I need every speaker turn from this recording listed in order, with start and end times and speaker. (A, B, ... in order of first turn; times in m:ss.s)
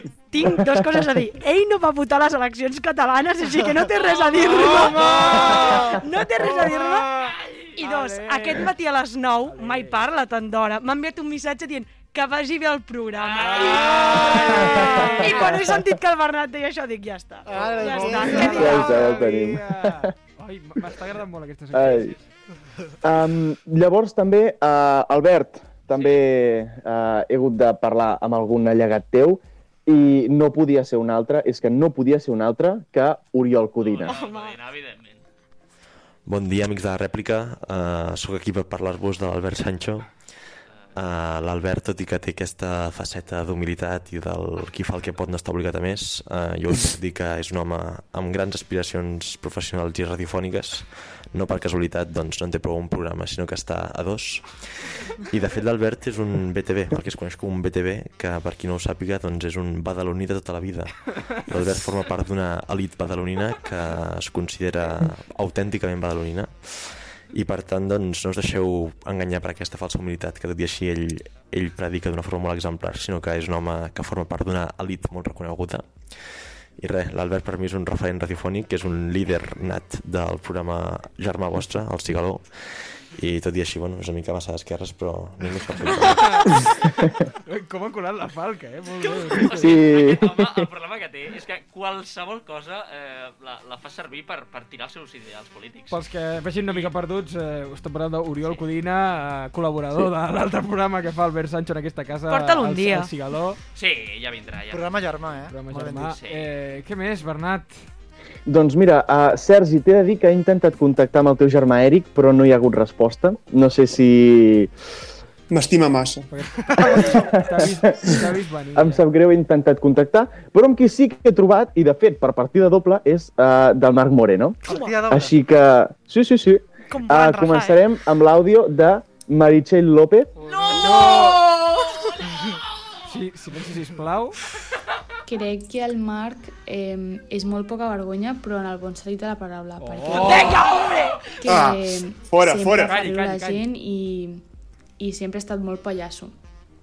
0:00.3-0:07.1 A
0:00.4-0:00.8 B
0:04.3-0:08.7 C
0:07.4-0:07.7 D
0:07.8-0:19.1 A
0:09.4-0:10.0 C
0:13.1-0:15.0 D
0:13.4-0:15.4 C
0:14.5-0:15.9 B
0:17.5-0:18.8 E
0:17.8-0:22.2 C
0:18.3-0:20.1 B
0:21.7-0:22.1 B
0:23.0-0:34.2 B
0:25.9-0:26.2 D
0:33.8-0:35.2 D
0:34.0-0:34.6 A
0:36.2-0:40.1 F
0:40.9-0:54.6 F
0:55.3-1:15.8 F
1:16.8-1:22.4 F
1:23.2-1:26.4 F
1:26.1-1:26.4 C
1:27.4-1:29.8 C
1:29.4-1:36.0 D
1:29.5-1:30.7 B
1:35.9-1:43.6 C
1:42.3-1:43.1 A
1:43.7-1:45.1 D
1:44.7-1:46.2 E
1:45.5-1:47.8 C
1:46.1-1:46.5 D
1:48.4-1:54.7 B
1:55.5-1:56.3 G
1:56.3-1:59.0 C
1:56.7-1:57.2 E
1:57.0-2:10.3 B
2:04.6-2:05.3 E
2:04.7-2:05.0 A
2:06.9-2:07.8 A
2:10.5-2:11.4 C
2:10.7-2:12.1 A
2:13.0-2:14.4 C
2:15.3-2:20.7 H
2:19.8-2:20.7 C
2:20.1-2:21.4 A
2:21.4-2:24.4 H
2:21.4-2:23.0 G
2:22.8-2:23.7 C
2:25.0-2:26.3 H